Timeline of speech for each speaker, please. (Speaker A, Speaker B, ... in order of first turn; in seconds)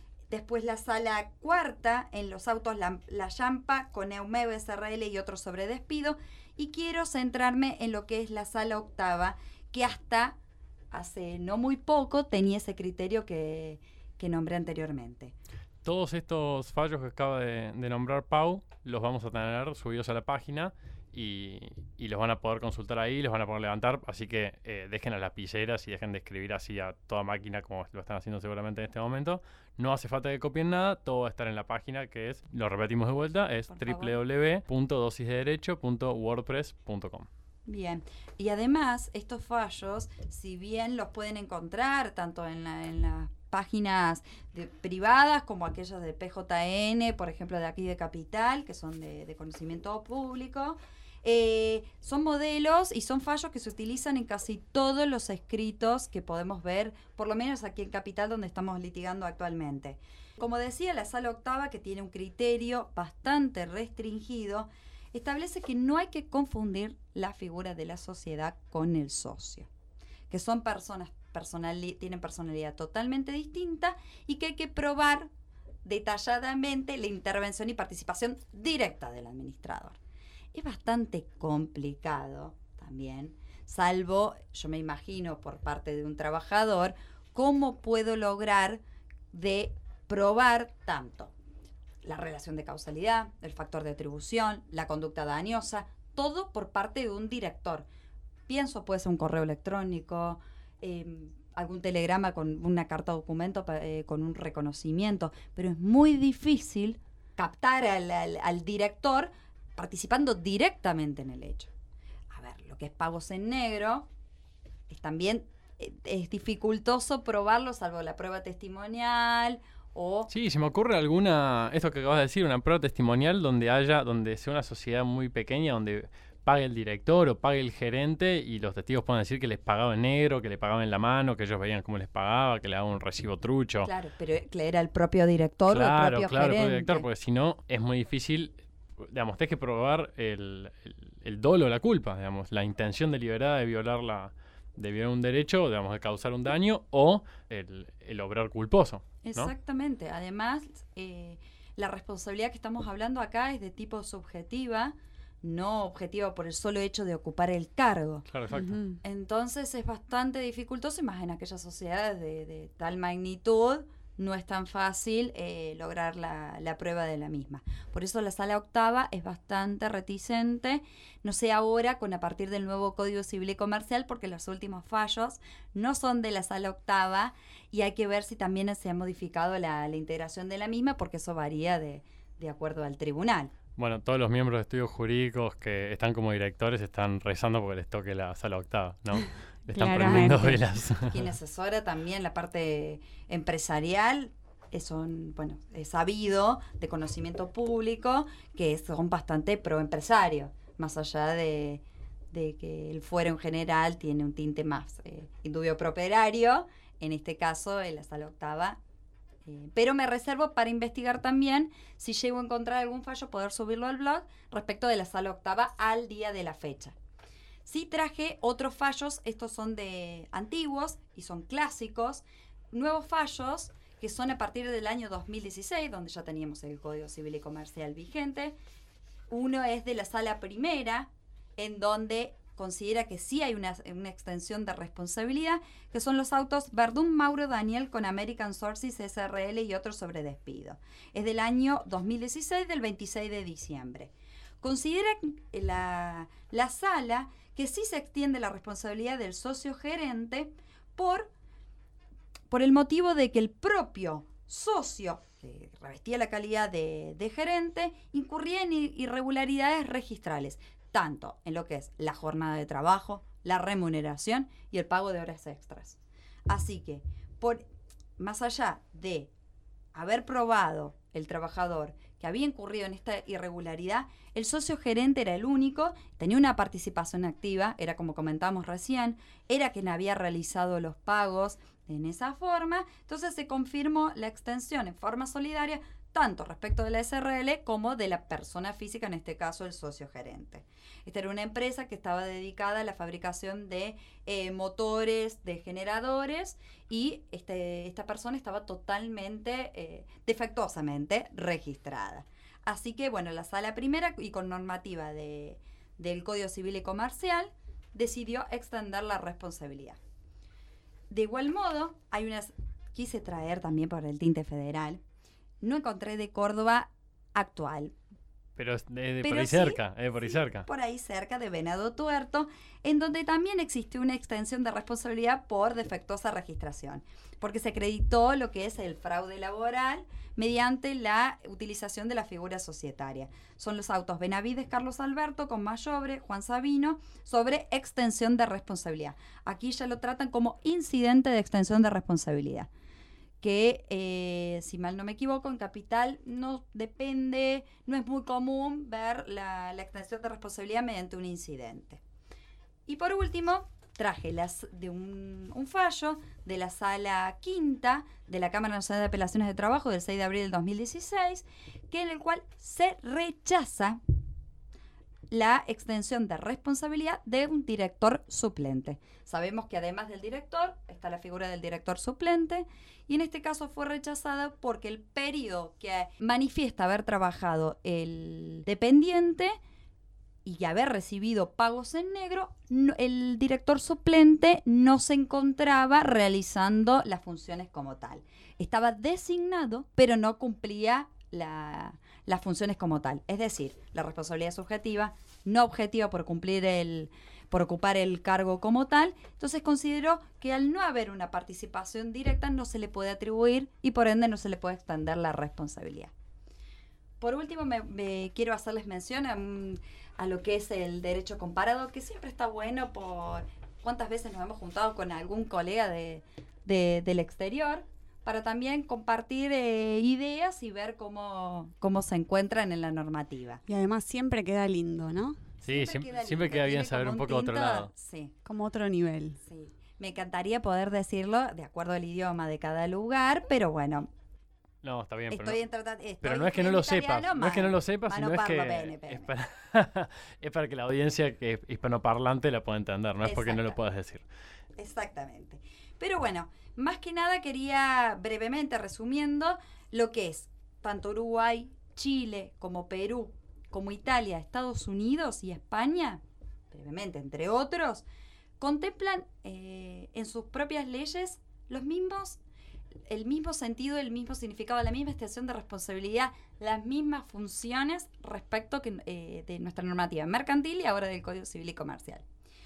Speaker A: 0.3-10.4, 10.9-15.3, 33.7-34.2, 37.7-69.7, 70.3-75.3, 75.8-80.0, 80.5-88.8, 89.3-91.3, 92.0-97.9, 98.5-111.7, 112.3-114.1, 114.9-120.3, 133.8-137.1, 149.2-158.3, 159.0-183.5, 191.1-208.8, 209.5-216.9, 217.7-228.6, 229.3-251.3, 252.5-267.6, 268.2-269.3, 269.9-310.0, 311.1-315.0, 315.6-317.9, 319.2-342.7, 343.4-352.0, 352.9-364.0, 365.3-379.6, 380.4-406.1, 407.2-423.6, 425.7-428.3, 429.4-434.1, 435.3-439.3, 443.2-443.8, 444.8-458.0, 458.6-462.4, 463.1-472.2
Speaker B: 15.8-37.3, 120.3-133.9, 135.7-149.5, 158.3-158.8, 183.8-191.3, 318.6-320.7, 425.6-427.9, 434.8-435.6, 436.2-444.2
Speaker C: 158.5-159.0, 189.7-190.6, 423.7-425.4, 428.4-429.4